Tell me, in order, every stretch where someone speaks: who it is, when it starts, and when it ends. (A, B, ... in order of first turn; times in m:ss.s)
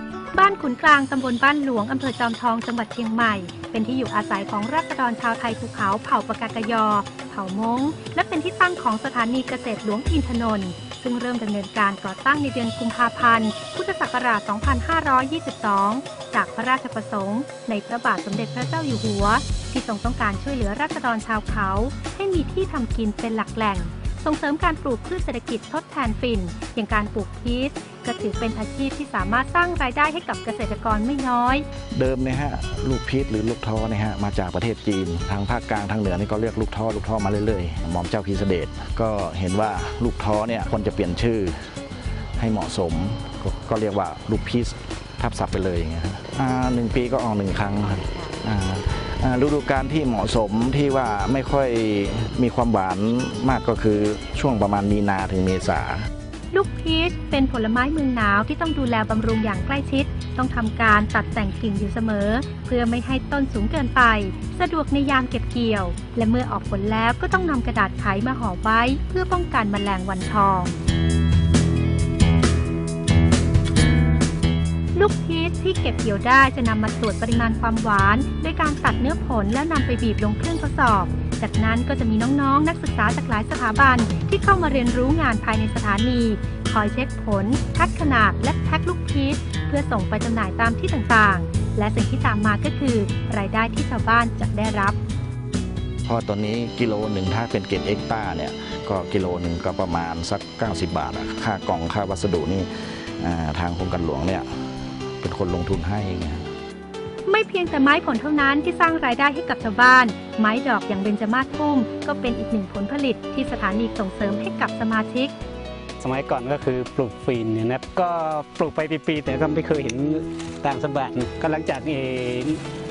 0:00.3-0:31.6 A
0:31.9-0:41.8 B
0:42.4-0:56.0 B
0:56.5-1:10.8 A
1:14.9-1:35.0 A
1:36.0-1:44.5 B
1:45.2-1:46.5 B
1:47.3-1:55.3 A
1:56.0-2:02.6 C